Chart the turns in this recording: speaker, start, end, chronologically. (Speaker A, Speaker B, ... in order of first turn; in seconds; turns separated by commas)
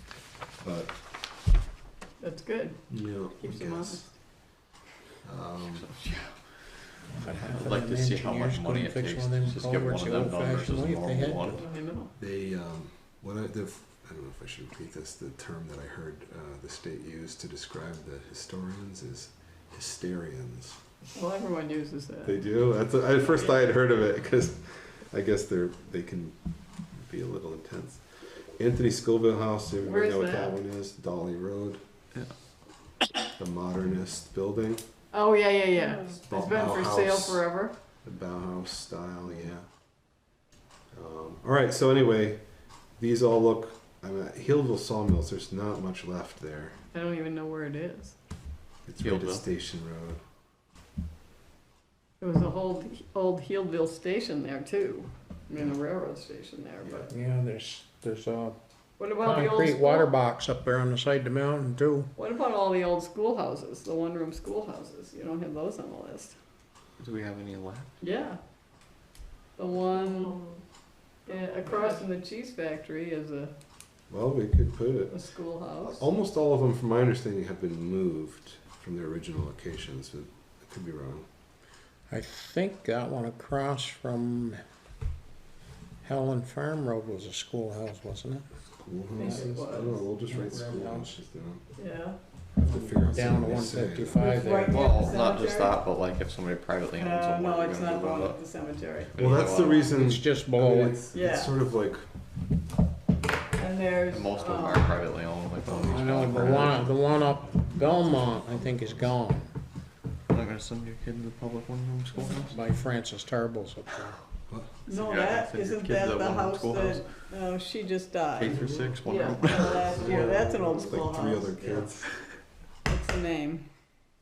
Speaker A: 0.6-0.9, Speaker B: 2.2-4.0, Speaker A: 2.9-4.1, Speaker A: 5.2-5.9, Speaker C: 5.7-6.3, Speaker D: 7.1-11.6, Speaker C: 7.3-11.6, Speaker B: 11.6-12.1, Speaker A: 12.2-20.8, Speaker B: 21.1-22.4, Speaker A: 22.2-26.4, Speaker A: 26.9-31.8, Speaker B: 29.8-30.5, Speaker A: 33.3-34.8, Speaker B: 35.1-37.7, Speaker A: 36.2-37.4, Speaker A: 38.0-39.6, Speaker A: 40.9-42.4, Speaker A: 43.0-46.8, Speaker B: 46.9-48.1, Speaker A: 48.8-50.2, Speaker C: 49.0-49.4, Speaker B: 52.2-57.1, Speaker D: 57.1-58.5, Speaker B: 59.0-60.1, Speaker D: 59.2-62.1, Speaker B: 62.1-66.3, Speaker C: 67.0-67.9, Speaker B: 68.0-68.4, Speaker B: 69.5-70.4, Speaker B: 71.2-73.5, Speaker A: 74.1-75.2, Speaker B: 75.1-76.0, Speaker A: 75.8-81.3, Speaker D: 82.1-84.6, Speaker D: 86.0-88.4, Speaker A: 88.8-91.6, Speaker B: 89.1-90.0, Speaker D: 89.2-91.2, Speaker B: 91.8-92.2, Speaker A: 92.6-94.2, Speaker D: 92.6-94.8, Speaker B: 94.2-95.8, Speaker C: 94.7-98.4, Speaker B: 96.9-99.9, Speaker C: 99.0-99.9, Speaker A: 99.2-102.0, Speaker D: 100.0-101.0, Speaker B: 101.1-101.5, Speaker B: 103.5-105.0, Speaker C: 104.1-106.9, Speaker A: 105.7-107.0, Speaker D: 105.9-109.5, Speaker A: 107.6-109.2, Speaker C: 110.3-112.5, Speaker D: 112.5-114.2, Speaker B: 114.8-122.2, Speaker C: 114.9-117.1, Speaker C: 118.3-120.2, Speaker A: 119.7-122.1, Speaker B: 122.8-123.6